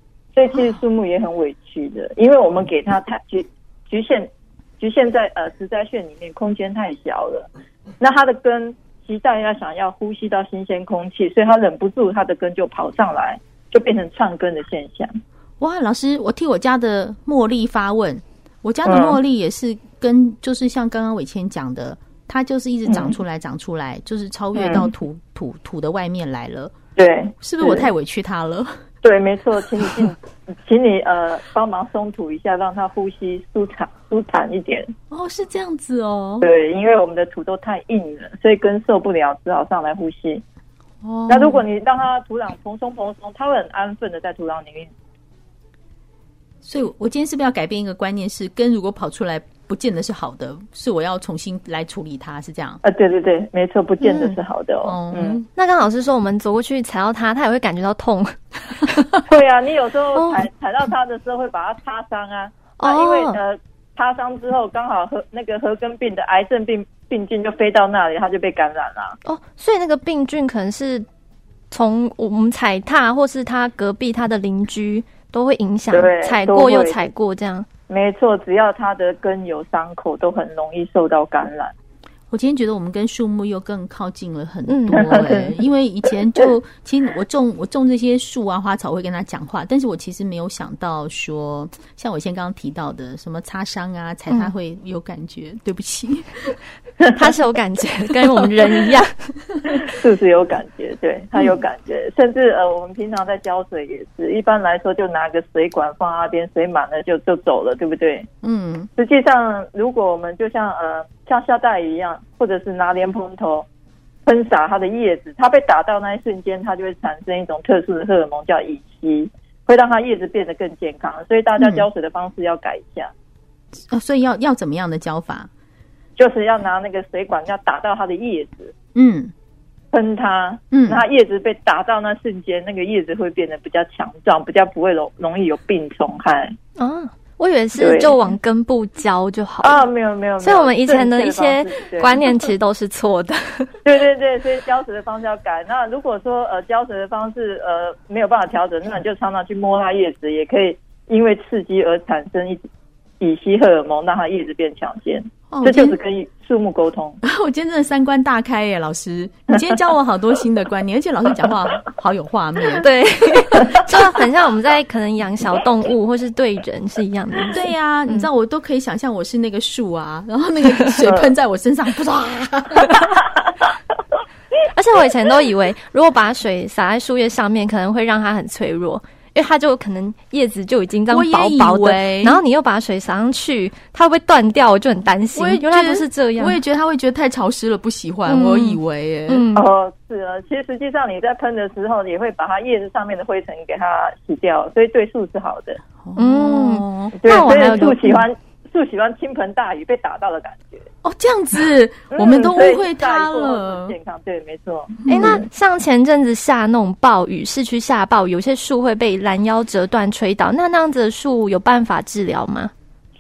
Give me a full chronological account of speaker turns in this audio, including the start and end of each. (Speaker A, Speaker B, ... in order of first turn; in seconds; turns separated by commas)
Speaker A: 0.3-7.5, Speaker A: 8.0-15.2, Speaker B: 15.6-26.8, Speaker A: 18.9-19.2, Speaker A: 22.9-23.1, Speaker A: 24.6-24.9, Speaker A: 27.0-27.9, Speaker B: 27.4-28.8, Speaker A: 29.0-34.9, Speaker B: 29.8-30.1, Speaker B: 35.1-36.5, Speaker A: 36.4-40.4, Speaker B: 41.0-41.6, Speaker A: 41.3-44.9, Speaker B: 46.6-52.8, Speaker A: 52.8-55.4, Speaker C: 54.0-54.4, Speaker B: 54.9-55.5, Speaker C: 55.6-59.1, Speaker A: 59.3-69.2, Speaker C: 60.2-60.5, Speaker C: 62.8-63.4, Speaker C: 69.3-71.1, Speaker C: 71.7-77.7, Speaker A: 75.9-77.0, Speaker A: 77.9-81.7, Speaker B: 82.3-96.6, Speaker C: 84.7-85.2, Speaker A: 85.0-85.5, Speaker C: 97.1-99.3, Speaker A: 99.8-108.3, Speaker B: 108.4-108.9, Speaker A: 109.0-113.7, Speaker A: 114.3-123.1, Speaker B: 121.6-121.9, Speaker B: 123.9-125.5, Speaker A: 126.2-128.7, Speaker B: 128.9-129.3, Speaker A: 129.9-136.6, Speaker B: 130.7-131.0, Speaker C: 136.8-139.8, Speaker A: 137.8-138.2, Speaker A: 139.6-142.3, Speaker C: 140.4-143.7, Speaker A: 143.8-152.6, Speaker A: 153.2-157.2, Speaker B: 155.5-156.0, Speaker B: 157.2-162.9, Speaker C: 162.8-168.3, Speaker B: 167.5-173.1, Speaker C: 174.7-186.6, Speaker B: 181.1-182.4, Speaker B: 185.3-189.5, Speaker C: 188.3-189.7, Speaker A: 189.5-195.8, Speaker B: 196.0-197.9, Speaker C: 196.2-198.2, Speaker A: 197.2-200.9, Speaker B: 201.0-203.9, Speaker A: 202.1-205.5, Speaker B: 205.1-205.4, Speaker C: 205.1-212.7